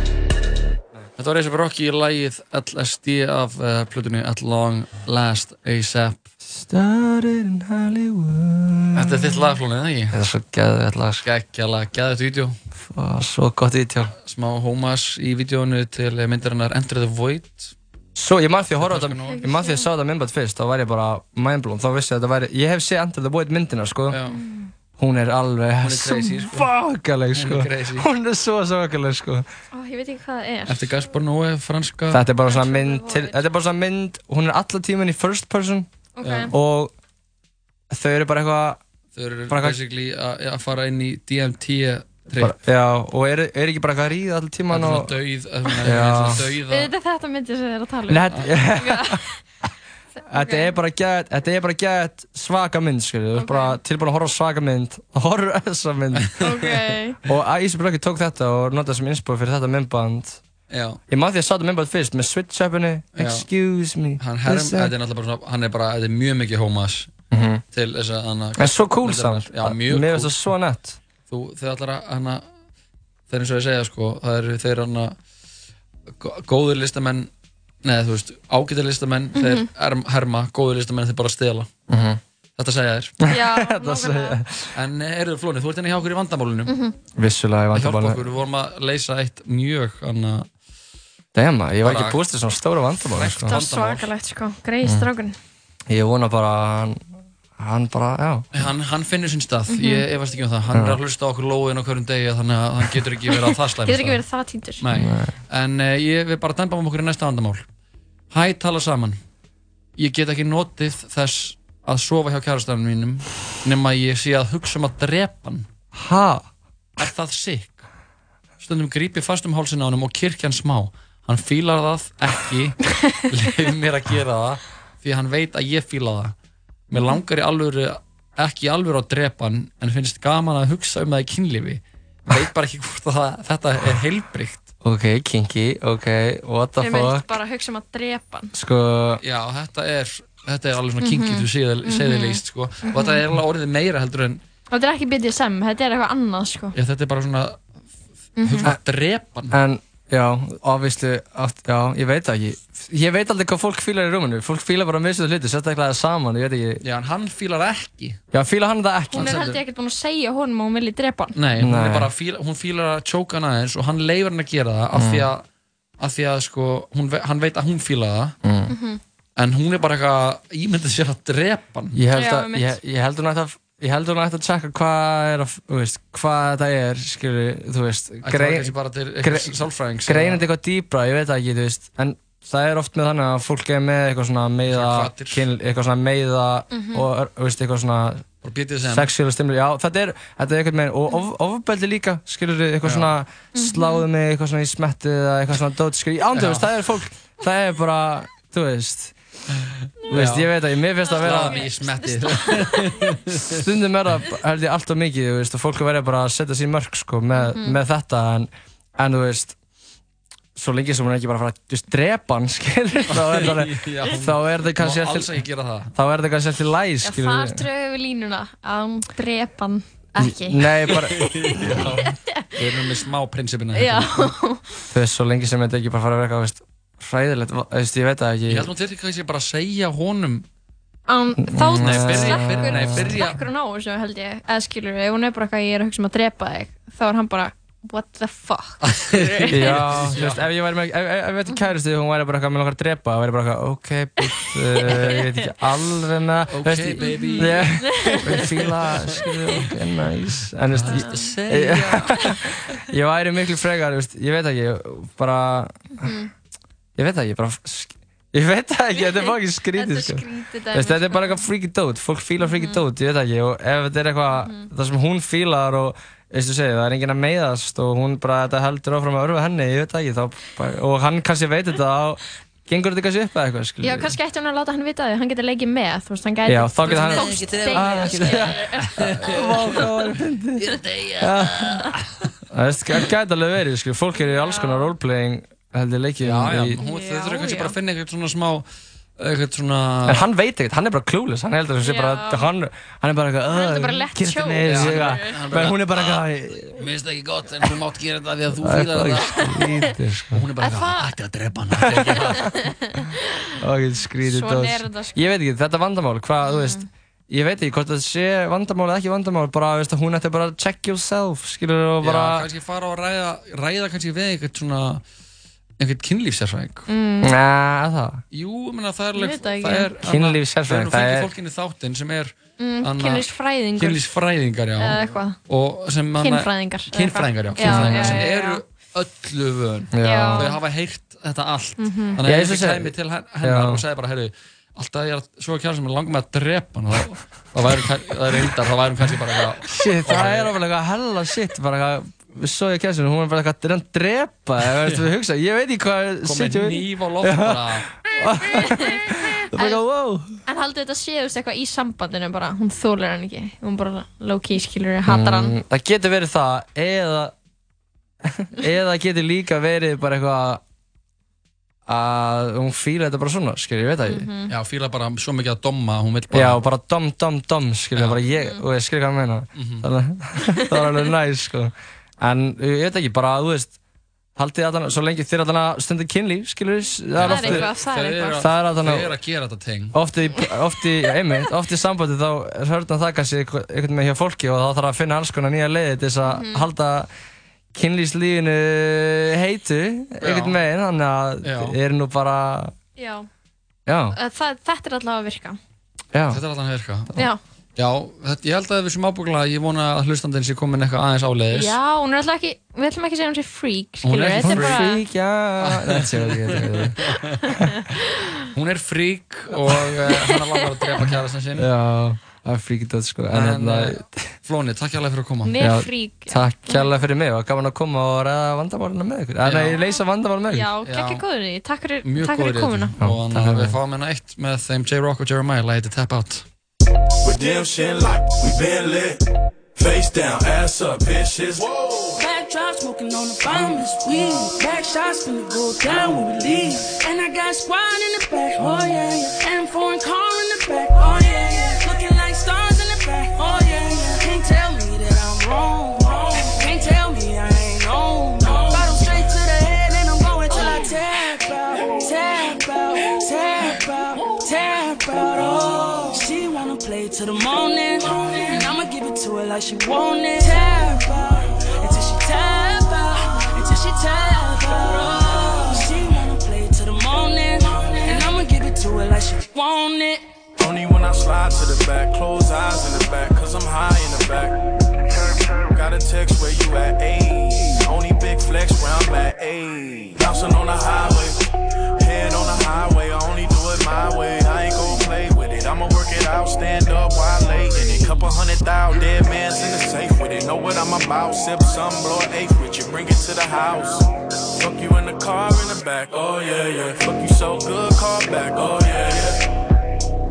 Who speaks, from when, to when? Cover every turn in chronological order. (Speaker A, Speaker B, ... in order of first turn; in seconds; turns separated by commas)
Speaker A: 1.2-6.2, Speaker B: 6.4-9.5, Speaker A: 8.9-10.2, Speaker B: 10.1-11.2, Speaker A: 11.2-12.6, Speaker B: 12.8-14.1, Speaker A: 14.2-17.7, Speaker B: 18.1-24.1, Speaker A: 18.8-19.4, Speaker C: 19.3-19.9, Speaker A: 24.1-24.4, Speaker C: 24.3-24.7, Speaker B: 25.0-29.4, Speaker A: 25.8-26.7, Speaker A: 27.3-28.1, Speaker C: 29.7-30.9, Speaker A: 30.7-32.2, Speaker B: 32.1-35.9, Speaker C: 32.5-33.4, Speaker C: 36.1-36.5, Speaker A: 36.2-36.5, Speaker B: 36.5-36.9, Speaker B: 37.9-38.8, Speaker A: 39.1-42.6, Speaker B: 39.5-39.8, Speaker B: 42.3-45.1, Speaker A: 44.7-46.9, Speaker B: 45.8-46.5, Speaker C: 46.7-49.4, Speaker B: 48.1-49.2, Speaker C: 50.2-50.7, Speaker B: 50.3-56.4, Speaker C: 53.3-53.8, Speaker C: 56.4-57.2, Speaker B: 57.2-60.4, Speaker A: 60.7-61.0, Speaker B: 61.1-64.9, Speaker A: 63.1-63.5, Speaker A: 64.2-67.1, Speaker B: 67.3-67.6, Speaker A: 67.7-70.4, Speaker B: 68.5-71.0, Speaker A: 71.3-72.4, Speaker A: 73.3-75.2, Speaker A: 76.2-77.3, Speaker A: 77.8-81.7, Speaker C: 79.3-79.7, Speaker B: 81.9-82.2, Speaker A: 82.6-83.2, Speaker B: 83.2-84.7, Speaker C: 83.3-84.4, Speaker A: 84.7-86.7, Speaker C: 86.7-86.9, Speaker B: 87.2-88.2, Speaker A: 87.7-90.5, Speaker B: 91.3-93.6, Speaker A: 91.8-92.3, Speaker A: 93.1-94.1, Speaker C: 93.5-95.3, Speaker B: 94.8-95.1, Speaker B: 95.9-98.5, Speaker A: 98.5-104.2, Speaker C: 99.7-100.0, Speaker B: 100.7-101.0, Speaker C: 103.8-104.8, Speaker A: 104.8-107.7, Speaker B: 104.9-105.3, Speaker A: 108.3-109.2, Speaker A: 110.0-115.7, Speaker B: 115.9-116.5, Speaker A: 117.0-117.9, Speaker A: 118.6-126.3, Speaker A: 126.9-134.7, Speaker C: 126.9-127.2, Speaker B: 134.8-137.3, Speaker C: 136.8-138.5, Speaker B: 138.5-139.2, Speaker A: 139.2-144.4, Speaker C: 141.0-143.2, Speaker C: 144.7-146.7, Speaker A: 146.7-147.6, Speaker C: 148.4-148.7, Speaker A: 148.4-149.6, Speaker B: 149.5-156.8, Speaker A: 156.8-158.2, Speaker B: 158.3-159.5, Speaker A: 159.1-159.6, Speaker C: 159.1-161.3, Speaker A: 161.3-165.4, Speaker B: 161.6-162.1, Speaker B: 164.9-165.3, Speaker A: 166.0-168.4, Speaker B: 168.4-168.7, Speaker C: 168.7-169.0, Speaker A: 169.3-172.0, Speaker B: 171.9-188.2, Speaker C: 172.1-172.8, Speaker A: 178.2-180.5, Speaker A: 184.7-185.5, Speaker C: 186.7-187.1, Speaker A: 188.4-189.1, Speaker B: 188.9-199.1, Speaker A: 192.8-193.1, Speaker C: 193.5-194.0, Speaker A: 196.3-196.8, Speaker A: 200.1-200.5, Speaker B: 200.1-201.7, Speaker C: 201.0-203.1, Speaker A: 201.1-203.6, Speaker B: 203.6-209.6, Speaker C: 207.3-207.8, Speaker B: 210.6-215.3, Speaker A: 213.1-215.9, Speaker B: 215.9-217.6, Speaker C: 217.0-221.3, Speaker B: 220.2-221.7, Speaker A: 221.3-224.3, Speaker C: 222.1-222.5, Speaker C: 223.7-224.7, Speaker B: 224.9-228.7, Speaker A: 228.5-230.4, Speaker C: 231.1-240.1, Speaker B: 231.4-233.2, Speaker A: 231.6-233.4, Speaker A: 238.8-240.5, Speaker B: 239.5-256.1, Speaker A: 246.5-249.6, Speaker C: 247.0-248.2, Speaker A: 250.7-252.4, Speaker C: 250.8-251.3, Speaker C: 256.0-256.3, Speaker B: 256.9-274.1, Speaker C: 258.9-261.4, Speaker C: 262.4-262.8, Speaker C: 264.3-264.7, Speaker C: 273.8-279.4, Speaker B: 276.4-281.9, Speaker A: 276.9-279.8, Speaker A: 280.6-282.0, Speaker B: 282.5-286.8, Speaker C: 284.2-284.9, Speaker A: 286.2-288.6, Speaker C: 286.8-287.7, Speaker A: 289.2-290.3, Speaker B: 290.1-296.8, Speaker C: 291.8-292.5, Speaker C: 293.5-295.4, Speaker A: 294.6-296.2, Speaker A: 296.8-302.6, Speaker B: 298.6-300.5, Speaker C: 300.6-301.1, Speaker B: 301.9-302.1, Speaker B: 303.6-312.5, Speaker C: 304.2-305.3, Speaker C: 306.4-306.8, Speaker A: 312.0-315.0, Speaker A: 315.8-316.9, Speaker C: 316.9-317.3, Speaker B: 317.2-318.2, Speaker A: 318.3-340.5, Speaker C: 319.1-319.9, Speaker B: 320.0-321.3, Speaker C: 322.6-324.0, Speaker C: 324.8-325.4, Speaker C: 326.2-328.6, Speaker B: 327.6-328.2, Speaker B: 329.9-330.5, Speaker C: 330.0-330.6, Speaker C: 331.8-332.2, Speaker B: 332.2-333.8, Speaker B: 339.7-350.2, Speaker A: 344.8-345.1, Speaker A: 346.2-347.9, Speaker C: 348.6-348.9, Speaker C: 349.5-349.8, Speaker C: 350.4-355.5, Speaker B: 355.1-357.3, Speaker B: 358.4-360.6, Speaker B: 361.9-364.3, Speaker C: 364.0-364.5, Speaker A: 364.5-366.6, Speaker B: 366.3-373.8, Speaker A: 367.9-368.2, Speaker C: 368.3-368.6, Speaker A: 369.5-369.9, Speaker B: 374.4-377.7, Speaker A: 377.1-380.0, Speaker C: 377.2-378.4, Speaker B: 378.4-379.1, Speaker B: 379.9-387.1, Speaker C: 386.2-386.6, Speaker B: 387.7-392.7, Speaker A: 390.2-390.6, Speaker A: 391.4-391.8, Speaker C: 393.0-393.3, Speaker B: 393.9-394.1, Speaker C: 394.1-395.6, Speaker B: 396.1-396.4, Speaker A: 396.3-397.2, Speaker A: 397.8-401.8, Speaker C: 401.5-405.0, Speaker A: 404.0-404.9, Speaker B: 404.4-407.0, Speaker A: 405.6-407.3, Speaker A: 408.5-411.7, Speaker B: 411.6-414.3, Speaker A: 413.3-415.6, Speaker C: 415.4-417.0, Speaker B: 415.6-420.7, Speaker A: 419.4-419.8, Speaker C: 419.7-422.9, Speaker A: 420.8-421.2, Speaker A: 422.0-426.4, Speaker B: 423.0-423.8, Speaker D: 427.2-429.2, Speaker D: 429.8-432.1, Speaker E: 432.1-470.2, Speaker D: 470.6-474.6, Speaker D: 475.1-481.4, Speaker D: 482.0-499.4